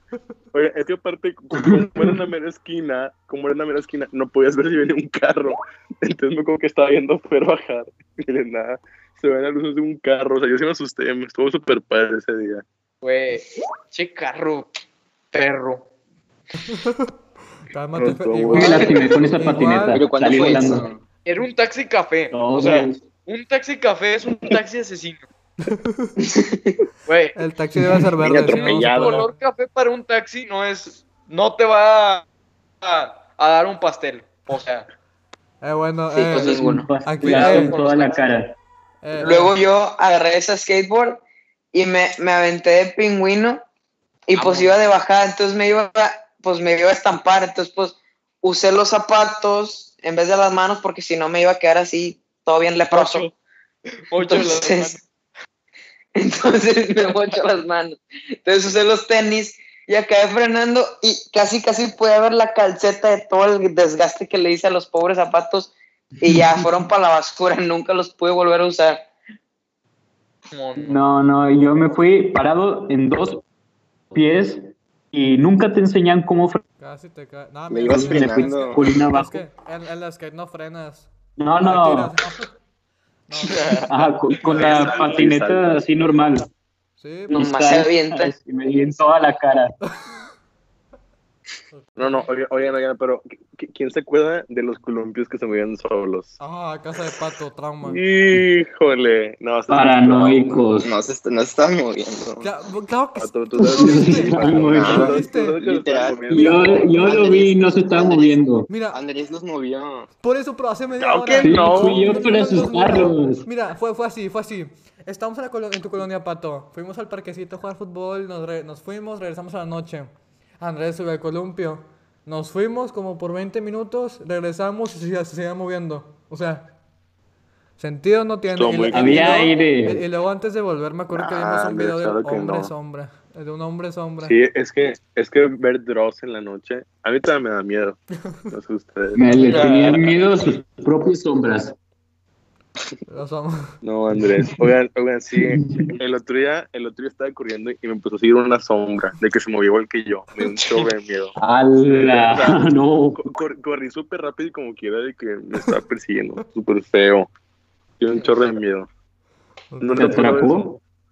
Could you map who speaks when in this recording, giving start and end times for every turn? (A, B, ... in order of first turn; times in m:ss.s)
0:00.5-0:12.6 A
0:01.6-0:02.0 B
0:13.0-0:14.7 C
0:15.3-0:15.8 C
0:16.6-0:17.1 D
0:17.7-0:20.0 D
0:17.9-0:19.5 A
0:18.5-0:20.8 B
0:19.9-0:21.0 E
0:21.2-0:25.2 C
0:22.3-0:23.0 B
0:25.6-0:26.1 D
0:27.1-0:27.4 C
0:27.3-0:29.3 D
0:28.2-0:29.2 E
0:28.4-0:29.2 A
0:28.5-0:32.2 C
0:32.8-0:34.9 C
0:35.6-0:37.8 D
0:36.1-0:36.9 F
0:36.3-0:38.5 B
0:37.2-0:38.2 C
0:39.0-0:39.5 D
0:39.2-0:41.2 F
0:41.7-0:43.6 F
0:44.3-0:53.3 F
0:44.3-0:44.7 C
0:52.9-0:53.3 C
0:54.0-0:55.0 C
0:54.2-0:54.9 F
0:56.2-1:09.0 F
1:06.2-1:06.8 B
1:10.5-1:11.0 C
1:10.8-1:13.4 B
1:14.1-1:16.6 B
1:16.8-1:21.1 D
1:17.7-1:18.9 E
1:17.9-1:19.4 B
1:21.4-1:22.1 B
1:21.6-1:22.5 D
1:23.3-1:23.8 D
1:23.5-1:23.9 C
1:23.9-1:26.5 B
1:24.5-1:25.8 A
1:24.6-1:25.0 C
1:27.0-1:27.5 D
1:27.3-1:28.3 F
1:27.3-1:29.7 B
1:31.7-1:32.2 D
1:32.0-1:36.4 A
1:36.4-1:38.0 D
1:37.8-1:40.6 A
1:39.7-1:40.9 B
1:40.7-1:42.5 E
1:42.4-1:45.6 D
1:43.2-1:47.3 A
1:43.6-1:45.1 B
1:44.6-1:50.1 E
1:46.3-1:48.7 B
1:48.7-1:49.0 D
1:50.2-2:00.1 D
1:51.0-1:52.3 A
1:51.4-1:53.4 B
2:00.6-2:06.7 D
2:07.8-2:14.4 D
2:08.5-2:09.5 A
2:08.9-2:10.0 B
2:11.1-2:12.7 A
2:14.2-2:18.0 A
2:18.5-2:19.9 A
2:19.1-2:21.8 B
2:19.4-2:20.1 C
2:23.1-2:23.7 D
2:23.8-2:31.4 A
2:24.2-2:24.6 B
2:25.4-2:25.9 B
2:31.4-2:33.2 B
2:31.9-2:37.3 A
2:38.0-2:38.9 A
2:39.7-2:40.4 D
2:39.8-2:40.7 A
2:40.0-2:40.8 B